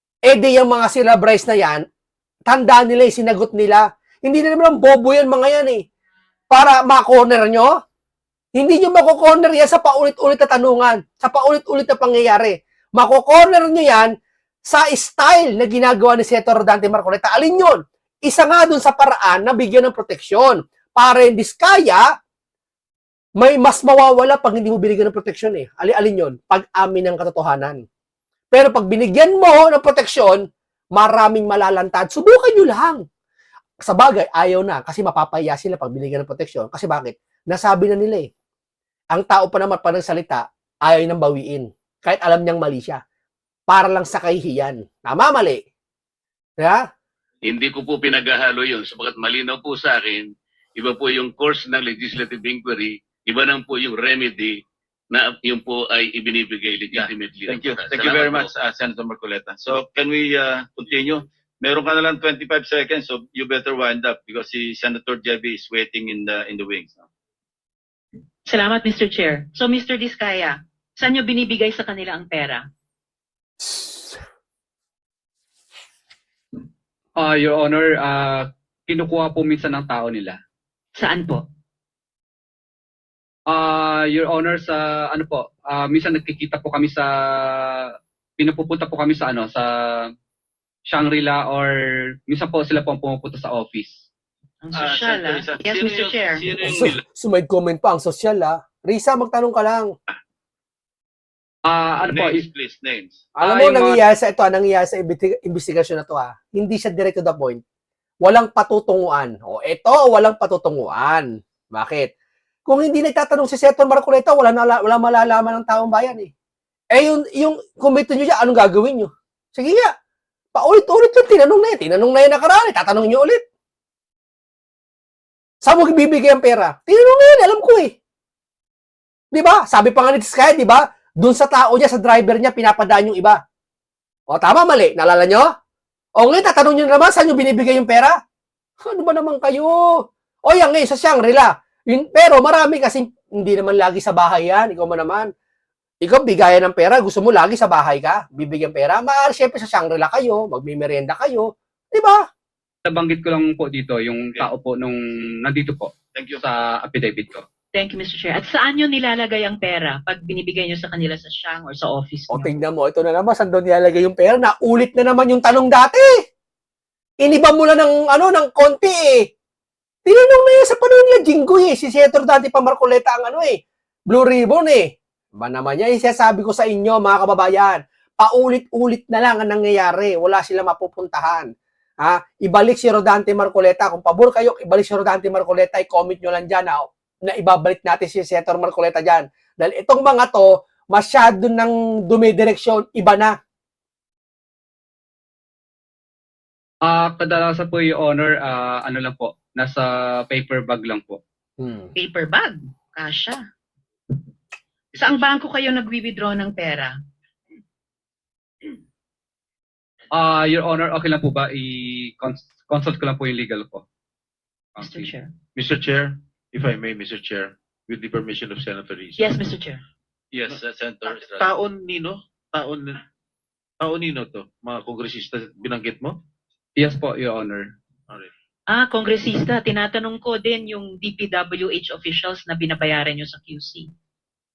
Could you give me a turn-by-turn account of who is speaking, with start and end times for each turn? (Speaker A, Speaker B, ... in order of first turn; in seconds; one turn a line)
Speaker A: 0.3-1.8
Speaker A: 2.5-5.8
Speaker A: 6.5-7.7
Speaker A: 8.6-14.1
Speaker A: 14.7-22.0
Speaker A: 23.4-27.8
Speaker A: 28.5-30.4
Speaker A: 30.9-33.0
Speaker A: 33.9-38.3
Speaker A: 39.1-43.0
Speaker A: 43.7-45.6
Speaker B: 47.4-58.5
Speaker C: 56.9-67.1
Speaker D: 68.5-72.6
Speaker E: 77.2-80.4
Speaker D: 81.0-81.4
Speaker E: 83.5-90.1
Speaker E: 90.9-91.7
Speaker E: 92.3-94.1
Speaker D: 94.6-96.5
Speaker C: 94.7-97.0
Speaker A: 96.6-99.9
Speaker E: 101.7-102.4
Speaker C: 102.0-103.2
Speaker A: 103.4-107.6
Speaker E: 103.4-104.0
Speaker A: 108.2-112.1
Speaker A: 112.7-116.3
Speaker A: 116.9-119.9
Speaker A: 120.5-123.4
Speaker A: 125.6-127.9
Speaker A: 129.3-133.4
Speaker A: 134.3-135.5
Speaker A: 136.2-138.1
Speaker A: 138.9-139.8
Speaker A: 140.4-145.3
Speaker A: 146.0-152.2
Speaker E: 152.8-157.4
Speaker C: 156.1-156.4
Speaker D: 157.7-162.5
Speaker A: 162.3-166.1
Speaker A: 167.2-169.2
Speaker A: 170.1-173.6
Speaker A: 174.1-181.5
Speaker A: 182.0-193.3
Speaker E: 196.8-201.2
Speaker A: 201.6-201.9
Speaker D: 202.0-203.4
Speaker D: 204.9-206.9
Speaker E: 210.1-213.8
Speaker E: 214.8-215.1
Speaker D: 214.8-215.3
Speaker F: 215.6-219.3
Speaker D: 219.2-219.8
Speaker C: 220.3-221.5
Speaker F: 220.4-223.0
Speaker F: 223.8-226.2
Speaker E: 226.8-227.7
Speaker D: 228.7-233.9